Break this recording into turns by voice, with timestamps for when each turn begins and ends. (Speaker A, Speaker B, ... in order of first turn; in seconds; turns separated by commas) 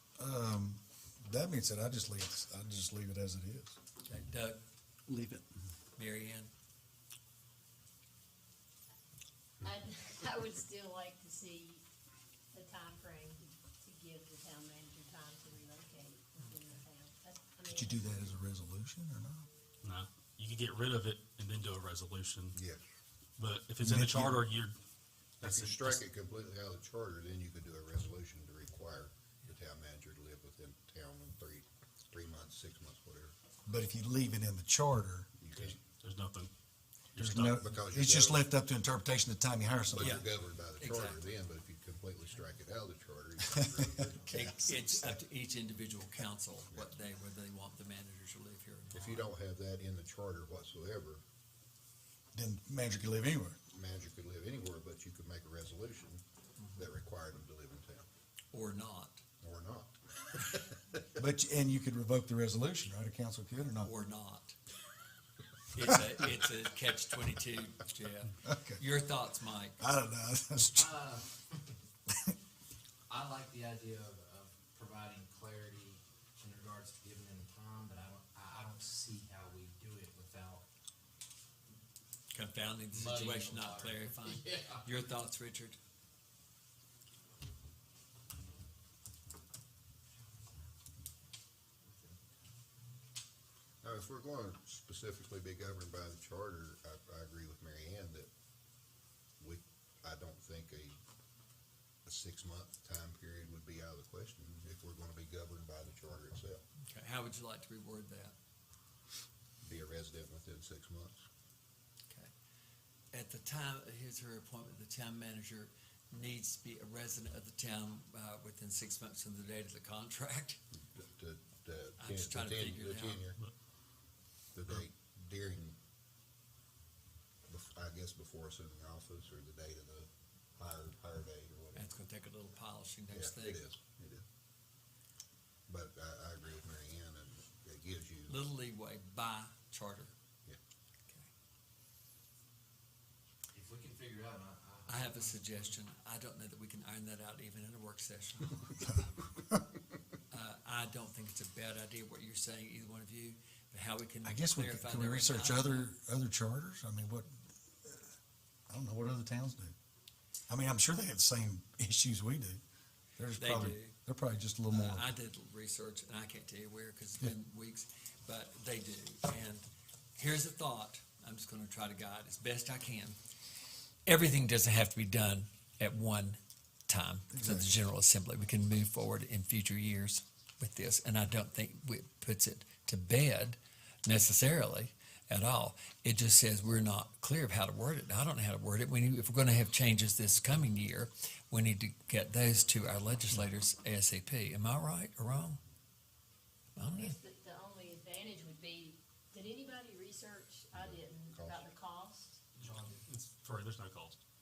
Speaker A: 0.2-3.8, Speaker B: 4.0-4.6, Speaker A: 5.1-5.5, Speaker B: 6.0-6.5, Speaker C: 9.6-11.8, Speaker C: 12.5-18.1, Speaker A: 17.6-19.5, Speaker D: 19.8-22.6, Speaker E: 22.5-22.8, Speaker D: 23.4-24.8, Speaker A: 23.8-24.5, Speaker E: 25.4-33.3, Speaker D: 25.4-26.0, Speaker A: 33.7-35.3, Speaker E: 35.4-35.8, Speaker D: 35.5-36.5, Speaker D: 37.1-37.6, Speaker A: 37.2-40.3, Speaker E: 37.6-38.5, Speaker E: 39.9-45.0, Speaker B: 40.0-41.3, Speaker B: 44.3-49.3, Speaker E: 48.9-51.2, Speaker A: 52.3-53.6, Speaker E: 53.7-56.2, Speaker B: 56.6-56.9, Speaker E: 56.8-58.1, Speaker B: 58.5-59.2, Speaker E: 59.4-61.1, Speaker A: 61.2-63.9, Speaker B: 63.8-64.6, Speaker B: 65.7-69.8, Speaker A: 68.4-68.8, Speaker A: 69.8-70.9, Speaker F: 70.7-71.7, Speaker F: 73.1-80.7, Speaker B: 82.3-85.8, Speaker F: 82.9-85.1, Speaker F: 91.9-92.2, Speaker E: 93.8-98.3, Speaker E: 99.4-101.0, Speaker E: 102.0-106.6, Speaker B: 106.8-108.3, Speaker E: 109.6-111.2, Speaker B: 113.1-120.6, Speaker E: 120.7-123.4, Speaker B: 122.0-123.2, Speaker E: 124.5-125.8, Speaker E: 127.5-131.9, Speaker B: 131.8-133.6, Speaker E: 133.1-134.2, Speaker E: 135.7-138.4, Speaker B: 138.3-140.1, Speaker F: 143.5-145.8, Speaker B: 144.9-149.0, Speaker B: 150.3-155.9, Speaker A: 154.2-158.2, Speaker A: 158.7-159.7, Speaker A: 160.5-162.6, Speaker A: 163.2-165.1, Speaker B: 163.4-164.0, Speaker B: 164.7-173.2, Speaker B: 174.1-195.6, Speaker A: 177.3-177.7, Speaker B: 196.8-197.2, Speaker C: 196.8-202.4, Speaker E: 200.7-201.7, Speaker D: 202.6-204.2, Speaker F: 202.7-203.0